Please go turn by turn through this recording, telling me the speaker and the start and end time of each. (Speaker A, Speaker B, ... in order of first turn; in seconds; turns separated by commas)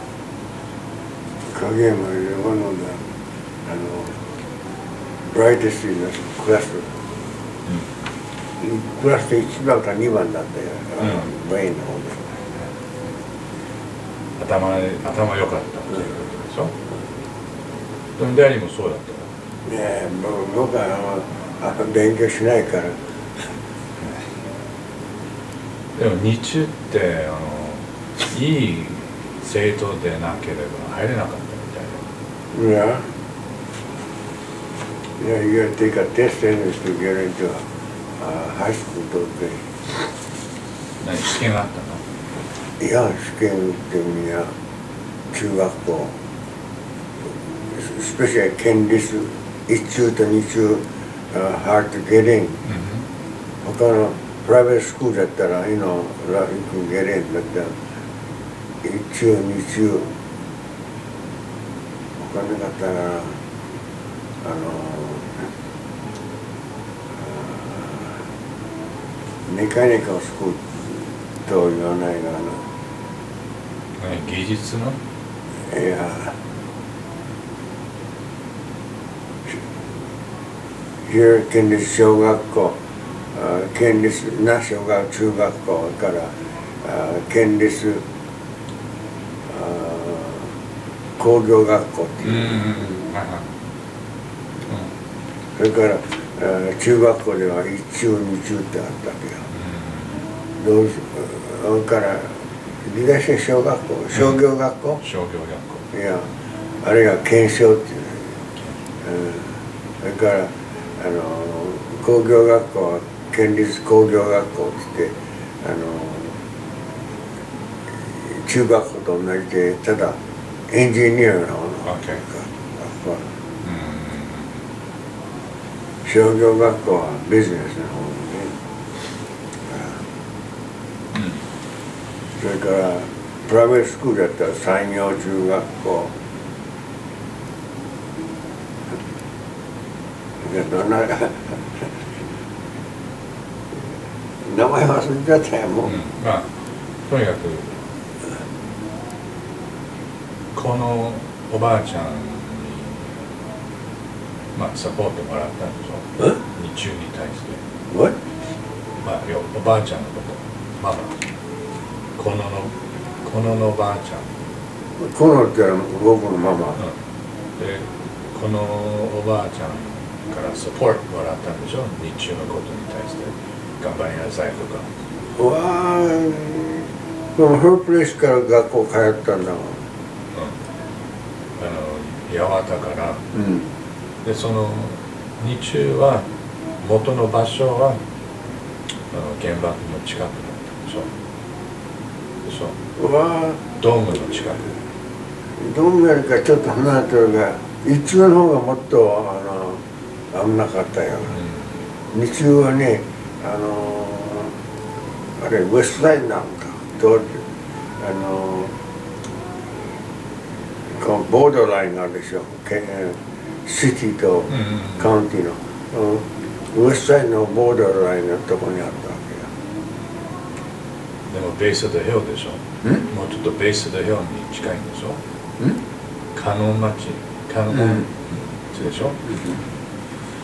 Speaker A: 1.4-3.1, Speaker A: 3.6-4.2, Speaker A: 5.2-7.0, Speaker A: 8.6-12.4, Speaker B: 14.4-16.7, Speaker B: 18.2-19.3, Speaker A: 19.6-23.5, Speaker B: 25.9-32.0, Speaker A: 32.5-33.1, Speaker A: 35.2-40.1, Speaker B: 41.0-42.0, Speaker A: 42.8-44.5, Speaker A: 45.3-46.2, Speaker A: 47.5-52.6, Speaker B: 52.6-53.0, Speaker A: 53.6-57.8, Speaker A: 58.8-60.1, Speaker A: 62.2-63.4, Speaker A: 64.4-65.5, Speaker A: 67.1-68.3, Speaker A: 69.5-72.7, Speaker B: 74.0-75.0, Speaker A: 75.5-76.4, Speaker A: 81.0-82.8, Speaker A: 83.3-88.0, Speaker A: 89.5-90.5, Speaker A: 91.2-93.0, Speaker B: 92.2-93.5, Speaker A: 95.6-99.5, Speaker B: 99.5-100.3, Speaker A: 100.6-105.0, Speaker B: 105.0-105.8, Speaker A: 105.9-108.4, Speaker A: 109.0-116.4, Speaker A: 117.9-120.2, Speaker A: 120.7-123.4, Speaker B: 121.8-122.2, Speaker B: 123.6-124.7, Speaker A: 126.0-128.6, Speaker A: 129.7-130.1, Speaker B: 131.1-131.4, Speaker A: 132.3-136.1, Speaker A: 140.4-142.1, Speaker A: 143.7-146.0, Speaker B: 145.8-146.5, Speaker B: 147.1-147.8, Speaker B: 150.5-153.1, Speaker B: 154.6-157.6, Speaker A: 157.9-158.2, Speaker B: 159.0-161.2, Speaker B: 162.2-164.3, Speaker A: 165.0-166.8, Speaker B: 167.6-174.9, Speaker A: 175.3-179.9, Speaker B: 180.3-180.6, Speaker B: 181.6-183.2, Speaker A: 183.3-183.7, Speaker B: 184.2-186.3, Speaker B: 186.8-188.0, Speaker B: 189.0-191.1, Speaker B: 192.4-192.8, Speaker A: 193.0-193.7, Speaker B: 193.8-194.7, Speaker A: 194.2-194.7, Speaker A: 195.5-201.4, Speaker B: 201.4-201.8, Speaker A: 202.1-204.6, Speaker A: 205.4-207.4, Speaker A: 208.0-208.8, Speaker A: 210.8-219.5, Speaker B: 214.5-215.0, Speaker B: 221.3-225.2, Speaker B: 226.3-229.2, Speaker A: 229.2-229.6